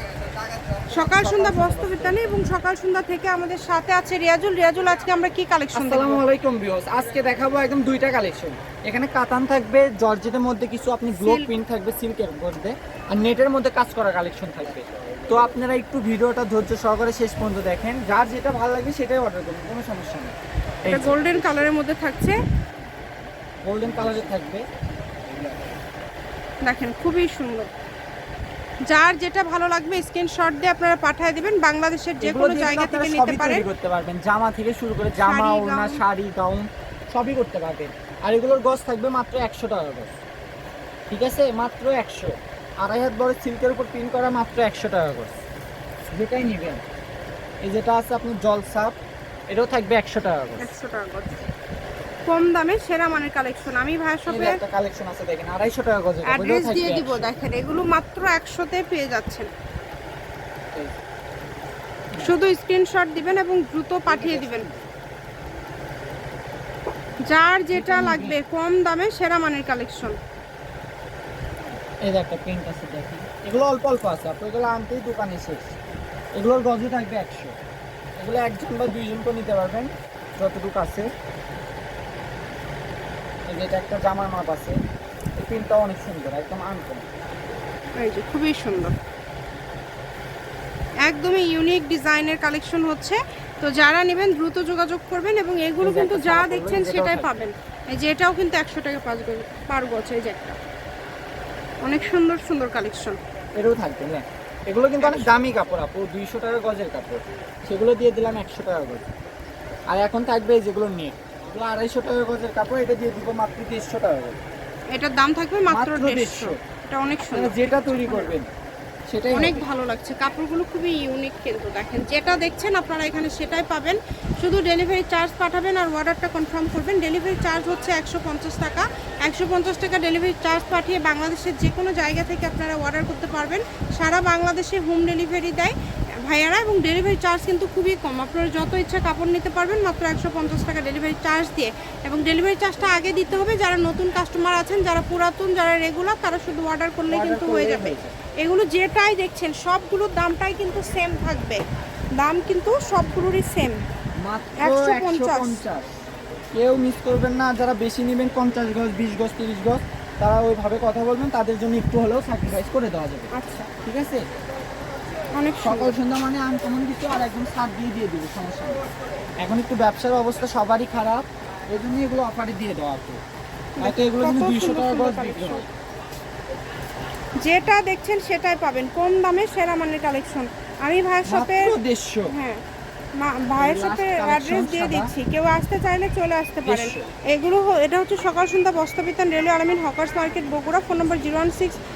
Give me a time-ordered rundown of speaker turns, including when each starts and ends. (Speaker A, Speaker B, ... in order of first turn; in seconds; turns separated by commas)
Speaker A: 0.9-6.2, Speaker B: 1.0-2.3, Speaker B: 5.7-21.4, Speaker A: 11.2-11.5, Speaker A: 20.9-22.4, Speaker B: 23.6-24.6, Speaker A: 26.6-27.7, Speaker A: 28.9-33.6, Speaker B: 32.2-40.1, Speaker A: 35.2-36.0, Speaker B: 41.1-45.4, Speaker B: 46.1-46.8, Speaker B: 47.6-49.0, Speaker B: 49.5-50.7, Speaker A: 50.6-51.5, Speaker A: 52.3-54.6, Speaker B: 54.3-57.3, Speaker A: 56.2-59.5, Speaker A: 62.2-64.7, Speaker B: 64.0-64.8, Speaker A: 67.3-70.2, Speaker B: 67.7-68.4, Speaker B: 72.0-75.8, Speaker B: 76.3-77.5, Speaker B: 78.2-81.1, Speaker B: 83.5-84.8, Speaker B: 85.4-87.1, Speaker A: 88.0-88.9, Speaker A: 91.0-100.6, Speaker B: 95.8-97.3, Speaker A: 101.8-103.2, Speaker B: 103.6-109.0, Speaker A: 105.0-105.4, Speaker B: 109.9-114.4, Speaker A: 114.9-118.3, Speaker B: 115.7-116.6, Speaker B: 117.3-118.5, Speaker B: 119.1-119.6, Speaker A: 119.3-135.7, Speaker A: 136.3-151.6, Speaker B: 147.1-148.1, Speaker A: 152.2-153.8, Speaker B: 154.2-155.9, Speaker A: 154.6-155.6, Speaker B: 156.5-164.2, Speaker A: 163.3-163.7, Speaker A: 165.3-165.9, Speaker B: 165.6-168.8, Speaker B: 169.4-173.2, Speaker A: 173.8-175.6, Speaker B: 173.8-175.6, Speaker A: 177.4-181.7, Speaker B: 181.2-182.3, Speaker A: 182.3-182.6, Speaker A: 183.2-191.8, Speaker B: 183.6-185.1, Speaker B: 186.6-187.1